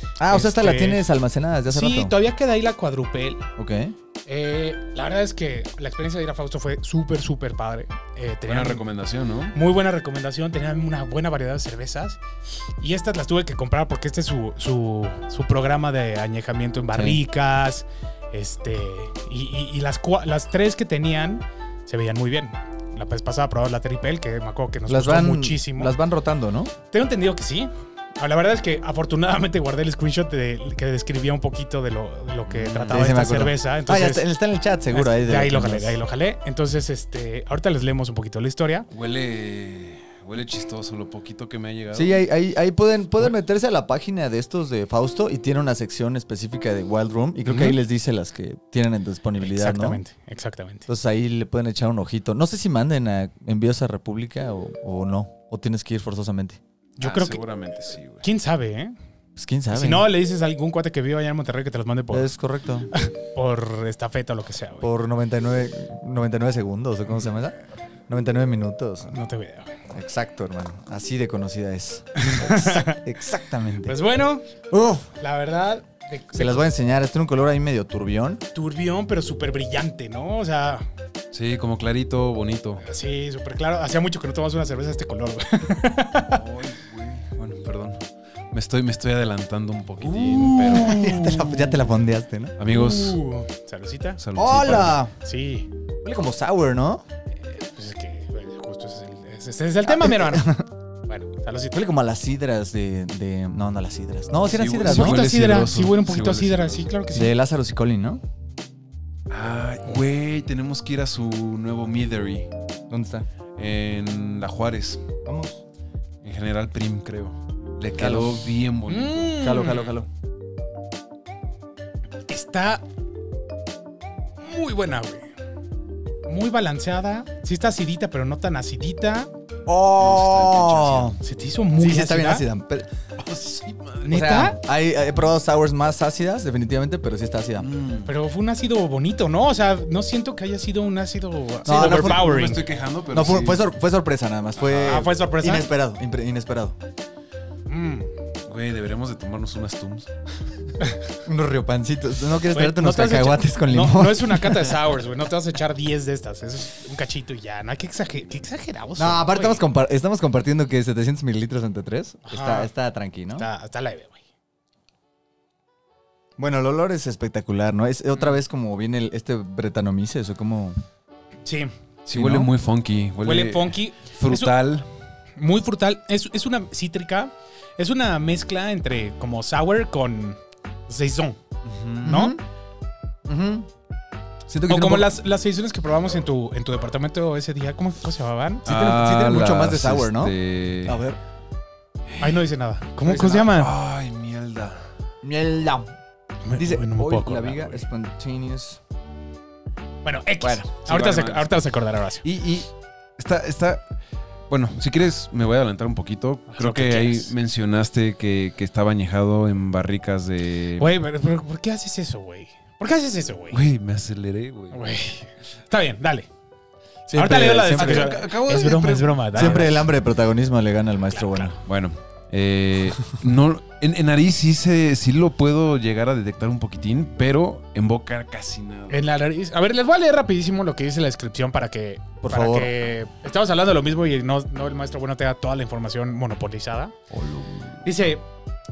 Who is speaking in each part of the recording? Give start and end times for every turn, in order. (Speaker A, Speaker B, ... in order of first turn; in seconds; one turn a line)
Speaker A: 0.2-2.1
Speaker B: 0.3-1.1
Speaker B: 1.7-3.5
Speaker A: 3.6-4.0
Speaker B: 4.3-8.8
Speaker C: 8.5-9.6
Speaker B: 9.5-12.2
Speaker B: 12.8-25.9
Speaker A: 16.9-17.2
Speaker A: 24.9-26.7
Speaker B: 26.9-34.2
Speaker C: 32.5-33.0
Speaker A: 32.9-36.0
Speaker B: 34.9-38.9
Speaker C: 38.9-42.2
Speaker A: 41.9-50.0
Speaker B: 47.5-47.7
Speaker B: 49.4-50.9
Speaker A: 50.9-56.6
Speaker B: 57.0-57.4
Speaker C: 57.0-58.2
Speaker B: 58.2-59.0
Speaker A: 59.4-60.1
Speaker B: 59.7-62.3
Speaker A: 62.1-62.9
Speaker B: 62.9-64.9
Speaker A: 64.8-67.6
Speaker A: 68.1-69.1
Speaker B: 69.1-69.8
Speaker A: 69.9-74.0
Speaker B: 72.2-73.0
Speaker B: 73.9-74.5
Speaker A: 74.7-75.1
Speaker B: 75.2-76.7
Speaker A: 76.3-78.4
Speaker B: 78.5-80.9
Speaker C: 81.3-82.8
Speaker B: 82.8-86.4
Speaker C: 86.3-91.8
Speaker A: 90.1-92.6
Speaker B: 90.4-91.3
Speaker C: 92.6-93.2
Speaker B: 92.7-94.2
Speaker C: 94.2-95.0
Speaker A: 94.4-95.1
Speaker B: 95.2-95.7
Speaker A: 96.0-97.0
Speaker B: 97.4-100.6
Speaker A: 99.9-100.7
Speaker B: 101.1-101.8
Speaker A: 101.7-105.2
Speaker C: 104.5-106.8
Speaker B: 104.8-107.3
Speaker A: 107.1-108.2
Speaker C: 109.3-112.5
Speaker A: 112.9-113.3
Speaker C: 113.6-115.1
Speaker A: 115.2-115.6
Speaker C: 116.2-119.4
Speaker A: 118.0-118.4
Speaker B: 118.9-119.9
Speaker A: 119.4-120.1
Speaker B: 122.3-122.8
Speaker B: 124.4-125.3
Speaker B: 126.3-129.3
Speaker A: 129.7-131.2
Speaker C: 130.0-131.2
Speaker B: 131.2-132.4
Speaker A: 131.8-132.9
Speaker C: 133.2-134.2
Speaker B: 134.1-134.6
Speaker A: 134.1-137.7
Speaker C: 137.6-138.1
Speaker B: 138.1-142.7
Speaker A: 141.7-146.8
Speaker C: 141.7-143.7
Speaker B: 144.6-145.7
Speaker B: 147.7-148.1
Speaker C: 148.5-150.1
Speaker A: 151.2-154.8
Speaker B: 152.5-159.7
Speaker A: 159.0-163.5
Speaker B: 162.2-162.7
Speaker B: 163.3-164.2
Speaker A: 166.4-170.8
Speaker B: 171.4-171.7
Speaker C: 172.1-174.9
Speaker A: 172.1-172.5
Speaker B: 173.2-174.6
Speaker B: 175.4-181.4
Speaker A: 181.7-182.4
Speaker B: 182.0-182.4
Speaker A: 183.3-183.7
Speaker A: 184.5-185.1
Speaker B: 184.7-188.7
Speaker A: 188.7-191.2
Speaker C: 188.7-191.0
Speaker C: 192.1-192.4
Speaker B: 192.2-193.7
Speaker A: 193.1-193.4
Speaker C: 193.3-194.9
Speaker A: 195.2-195.9
Speaker B: 196.4-197.8
Speaker A: 196.6-198.8
Speaker B: 200.0-202.2
Speaker C: 200.7-201.6
Speaker C: 202.2-203.8
Speaker C: 204.5-210.9
Speaker B: 206.5-207.3
Speaker B: 210.8-213.7
Speaker C: 213.5-214.8
Speaker B: 214.7-216.3
Speaker A: 217.1-218.2
Speaker B: 217.1-219.8
Speaker C: 217.7-219.8
Speaker A: 219.3-221.6
Speaker B: 221.1-221.6
Speaker C: 221.7-229.1
Speaker B: 228.9-236.9
Speaker A: 232.2-232.7
Speaker C: 237.1-237.8
Speaker B: 237.8-238.2